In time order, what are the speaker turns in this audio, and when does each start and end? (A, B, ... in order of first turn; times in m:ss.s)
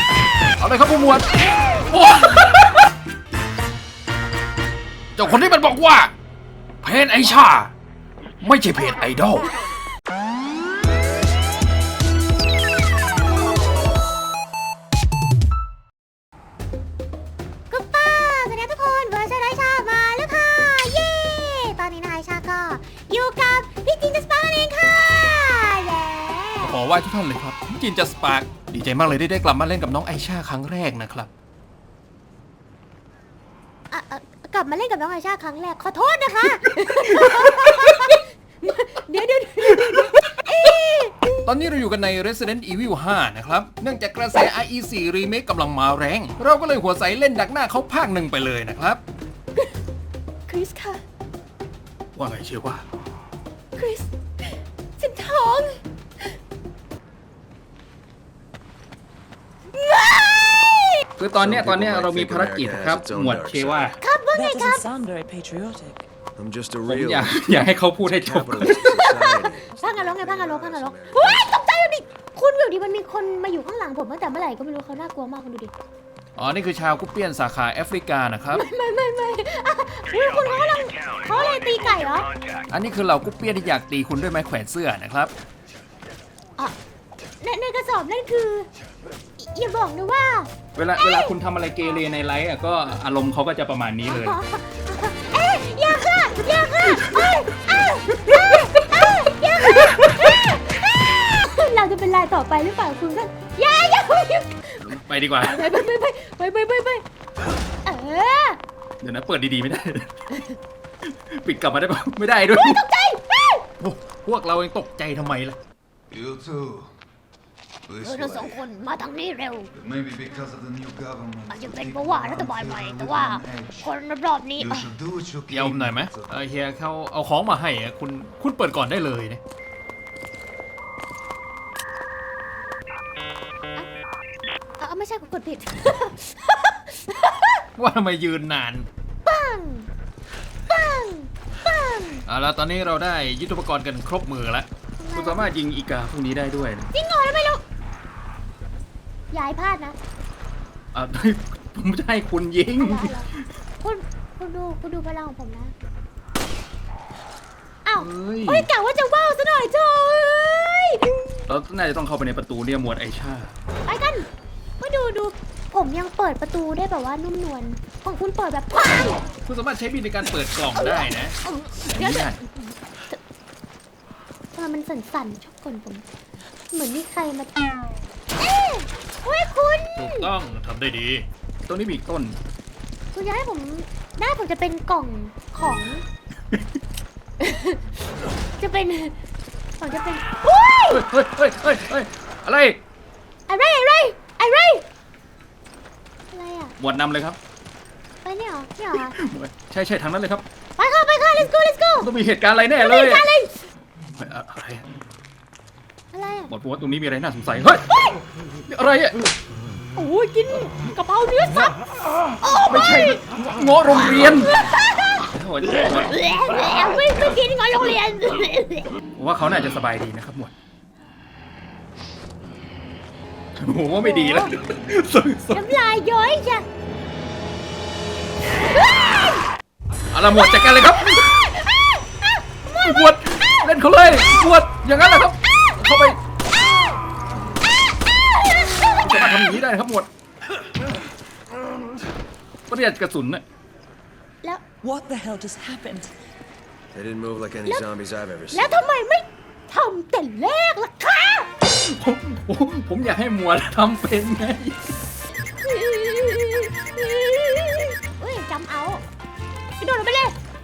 0:00.6-0:01.3 A
0:01.9-0:02.9 A
0:05.2-0:06.1 A
0:06.8-0:07.7 A
0:08.4-0:09.5 A
0:17.7-0:26.8 B
0:26.6-0:31.3 A
0:33.9-0:41.2 B
0:37.2-0:37.7 A
0:41.4-0:49.0 A
0:50.5-0:51.0 B
0:52.1-0:52.8 A
0:53.7-0:55.8 B
0:59.8-1:01.0 B
1:01.2-1:04.0 A
1:01.4-1:03.9 C
1:04.0-1:04.9 B
1:04.3-1:06.0 D
1:06.4-1:11.4 C
1:06.8-1:09.1 A
1:08.6-1:15.7 B
1:16.4-1:18.6 A
1:18.5-1:22.3 B
1:22.7-1:25.3 A
1:27.4-1:28.7 B
1:29.4-1:31.3 B
1:30.8-1:34.4 A
1:34.0-1:47.0 B
1:44.8-1:45.8 A
1:47.8-1:48.6 B
1:49.0-1:50.1 A
1:51.0-1:52.8 A
1:52.5-1:53.6 B
1:53.8-1:55.6 A
1:56.3-1:56.8 E
1:58.0-1:59.7 B
1:59.8-2:01.8 E
2:01.5-2:04.9 B
2:02.5-2:03.5 E
2:04.8-2:05.7 E
2:05.5-2:09.4 A
2:14.8-2:17.6 B
2:17.8-2:18.9 A
2:19.2-2:19.9 B
2:20.7-2:22.2 B
2:22.3-2:26.9 A
2:25.0-2:25.5 B
2:26.9-2:27.6 B
2:29.3-2:30.0 B
2:30.9-2:33.1 A
2:32.8-2:35.7 B
2:37.8-2:41.2 B
2:38.0-2:38.7 A
2:41.5-2:43.5 A
2:43.8-2:44.3 B
2:44.8-2:49.2 B
2:49.4-2:52.4 A
2:50.8-2:52.7 B
2:54.5-2:56.0 B
2:56.7-2:57.8 B
2:58.4-3:00.3 B
3:00.0-3:02.4 A
3:03.1-3:06.0 B
3:07.4-3:07.9 B
3:08.6-3:09.2 B
3:09.8-3:11.0 B
3:10.9-3:12.8 A
3:13.5-3:14.8 B
3:16.3-3:16.8 B
3:16.8-3:17.4 A
3:18.2-3:19.1 B
3:19.0-3:20.4 A
3:20.8-3:22.1 B
3:22.0-3:23.2 A
3:22.8-3:23.5 B
3:24.2-3:24.8 A
3:26.1-3:26.5 B
3:26.5-3:27.8 A
3:28.7-3:29.2 A
3:30.0-3:31.8 B
3:32.4-3:33.2 B
3:32.6-3:34.5 A
3:34.3-3:34.8 B
3:35.3-3:36.1 A
3:35.7-3:38.9 B
3:39.2-3:40.5 A
3:43.6-3:45.7 A
3:44.0-3:44.5 B
3:45.5-3:46.6 B
3:50.1-3:51.4 A
3:50.5-3:52.3 B
3:52.8-3:56.2 A
3:59.0-4:00.1 A
4:02.7-4:03.4 A
4:04.8-4:06.1 D
4:06.9-4:08.7 C
4:08.5-4:11.5 B
4:11.8-4:14.8 A
4:15.6-4:19.0 B
4:19.8-4:20.4 B